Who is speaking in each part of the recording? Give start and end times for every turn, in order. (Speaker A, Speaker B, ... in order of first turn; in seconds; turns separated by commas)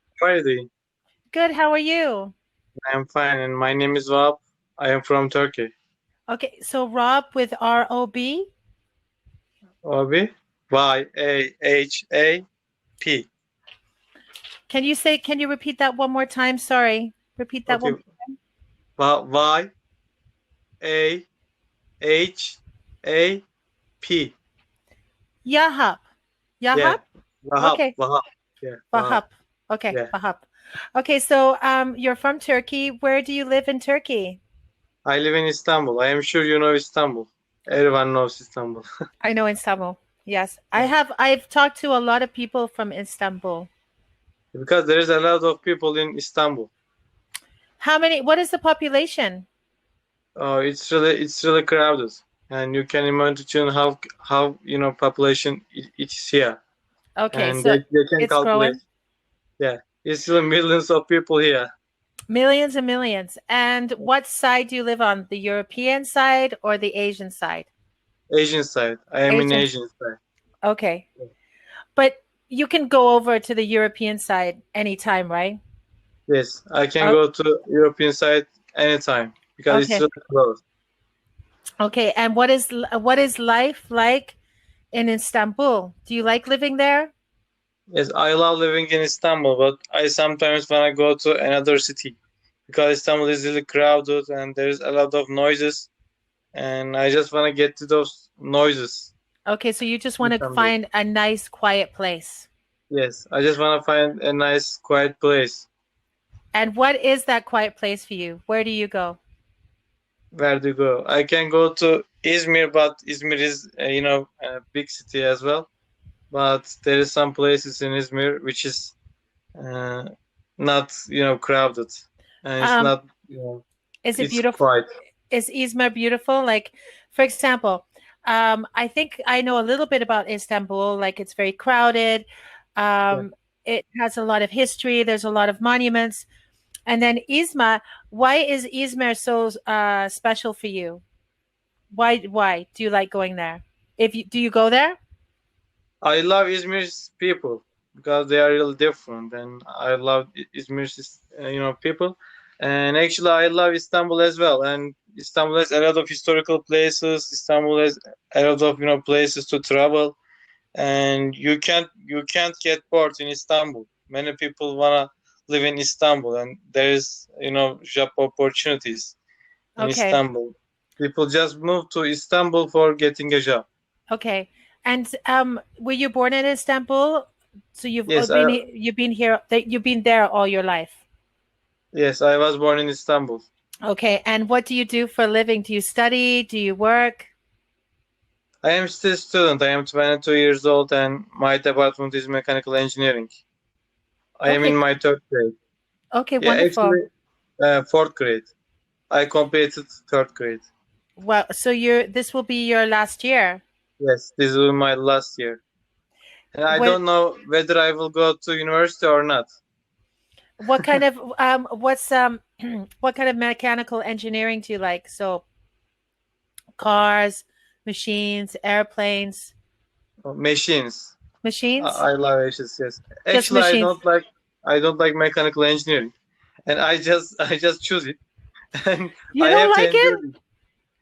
Speaker A: 0.2-0.7, Speaker B: 1.3-2.3, Speaker A: 2.9-5.7, Speaker B: 6.3-8.5, Speaker A: 9.8-12.4, Speaker A: 13.0-13.3, Speaker B: 14.7-18.3, Speaker A: 17.7-18.0, Speaker A: 19.0-19.7, Speaker A: 20.8-21.2, Speaker A: 22.0-23.4, Speaker A: 24.0-24.3, Speaker B: 25.4-26.0, Speaker B: 26.6-27.0, Speaker A: 26.7-29.2, Speaker B: 27.6-27.9, Speaker B: 28.9-34.4, Speaker A: 35.0-38.9, Speaker B: 39.2-43.7, Speaker A: 44.5-46.7, Speaker B: 47.8-49.5, Speaker A: 50.4-56.6, Speaker B: 57.2-58.8, Speaker A: 57.3-58.8, Speaker A: 59.6-61.7, Speaker B: 62.3-67.7, Speaker A: 68.3-70.2, Speaker B: 69.3-69.7, Speaker B: 70.6-71.0, Speaker B: 71.9-75.6, Speaker A: 76.3-80.6, Speaker B: 79.7-80.0, Speaker B: 81.8-84.4, Speaker B: 84.9-87.1, Speaker A: 87.9-92.2, Speaker A: 92.7-95.9, Speaker A: 96.5-99.1, Speaker B: 99.5-102.5, Speaker A: 100.2-100.7, Speaker A: 102.9-105.7, Speaker B: 106.5-109.2, Speaker A: 110.3-115.7, Speaker A: 116.3-119.0, Speaker A: 119.5-123.6, Speaker B: 122.6-122.9, Speaker B: 124.0-124.6, Speaker A: 124.2-124.9, Speaker B: 125.3-136.2, Speaker B: 136.9-141.0, Speaker B: 141.9-145.0, Speaker A: 146.0-160.2, Speaker A: 160.8-169.2, Speaker B: 169.8-170.2, Speaker A: 169.8-173.7, Speaker B: 174.1-181.0, Speaker A: 178.1-178.6, Speaker A: 181.9-183.5, Speaker B: 183.8-187.3, Speaker A: 188.6-193.4, Speaker A: 194.4-195.5, Speaker B: 194.5-194.8, Speaker B: 196.1-197.0, Speaker A: 196.4-197.1, Speaker A: 197.6-198.5, Speaker A: 199.1-200.7, Speaker B: 201.2-203.6, Speaker A: 204.0-205.6, Speaker A: 206.5-209.5, Speaker B: 206.7-207.0, Speaker B: 210.6-215.4, Speaker B: 216.8-219.5, Speaker A: 220.2-221.2, Speaker B: 221.4-222.0, Speaker A: 221.8-226.1, Speaker B: 223.3-224.0, Speaker A: 226.7-228.2, Speaker A: 228.8-230.4, Speaker B: 229.3-230.2